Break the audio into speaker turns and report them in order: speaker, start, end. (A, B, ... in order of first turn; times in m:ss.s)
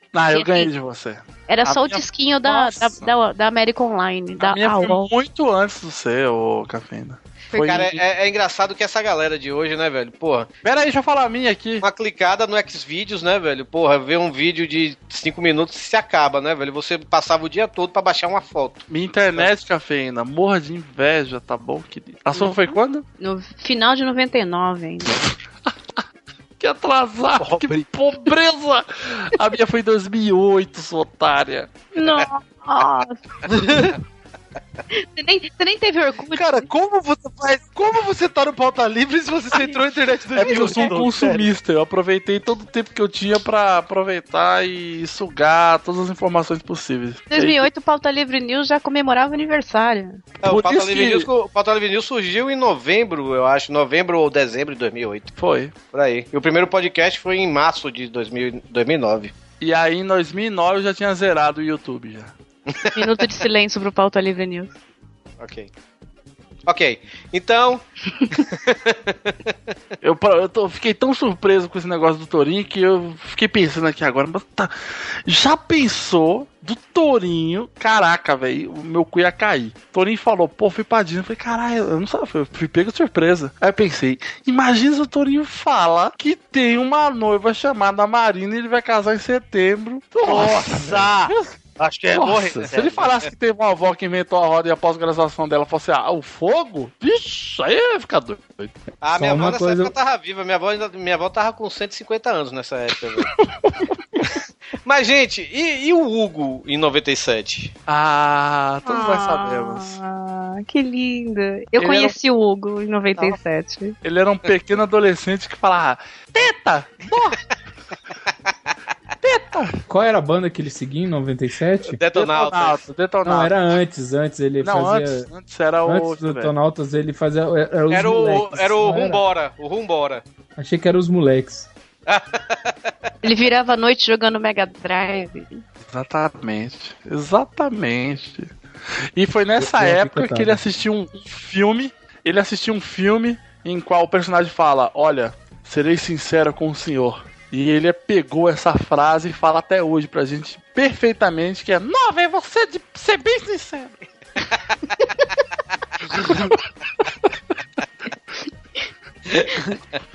0:00.1-0:03.1 A
0:00.3-0:00.7 B
0:01.5-0:05.0 B
0:04.4-0:08.0 A
0:07.5-0:07.8 B
0:07.6-0:10.5 C
0:10.6-0:11.8 A
0:11.8-0:19.5 C
0:18.9-0:23.0 A
0:22.3-0:25.2 B
0:25.7-0:26.0 A
0:26.6-0:31.7 A
0:27.4-0:27.9 D
0:31.9-0:33.2 B
0:33.5-0:34.0 D
0:34.9-0:36.7 B
0:36.3-0:41.5 D
0:40.4-0:47.7 A
0:40.4-0:40.8 B
0:47.3-0:50.2 B
0:50.4-0:55.3 C
0:50.4-0:51.3 A
0:55.4-0:55.7 A
0:55.9-0:59.3 C
0:59.6-1:02.3 A
1:02.7-1:03.2 C
1:03.0-1:04.7 B
1:05.4-1:05.7 C
1:06.7-1:09.5 C
1:10.0-1:14.7 A
1:15.2-1:31.6 A
1:30.2-1:33.1 D
1:32.1-1:38.7 A
1:39.0-1:43.3 C
1:39.1-1:39.9 E
1:43.4-1:43.8 A
1:44.8-1:47.7 C
1:47.9-1:50.0 A
1:48.9-1:54.0 B
1:51.8-1:52.1 A
1:54.0-1:57.4 A
1:59.2-1:59.8 A
1:59.9-2:02.0 E
2:01.9-2:02.8 C
2:02.1-2:03.5 A
2:03.2-2:05.3 E
2:04.6-2:06.5 A
2:05.8-2:09.2 E
2:07.9-2:10.2 C
2:10.6-2:11.7 E
2:12.1-2:12.7 C
2:13.2-2:15.6 B
2:15.8-2:18.5 A
2:19.2-2:33.9 A
2:19.6-2:20.6 E
2:36.0-2:36.6 D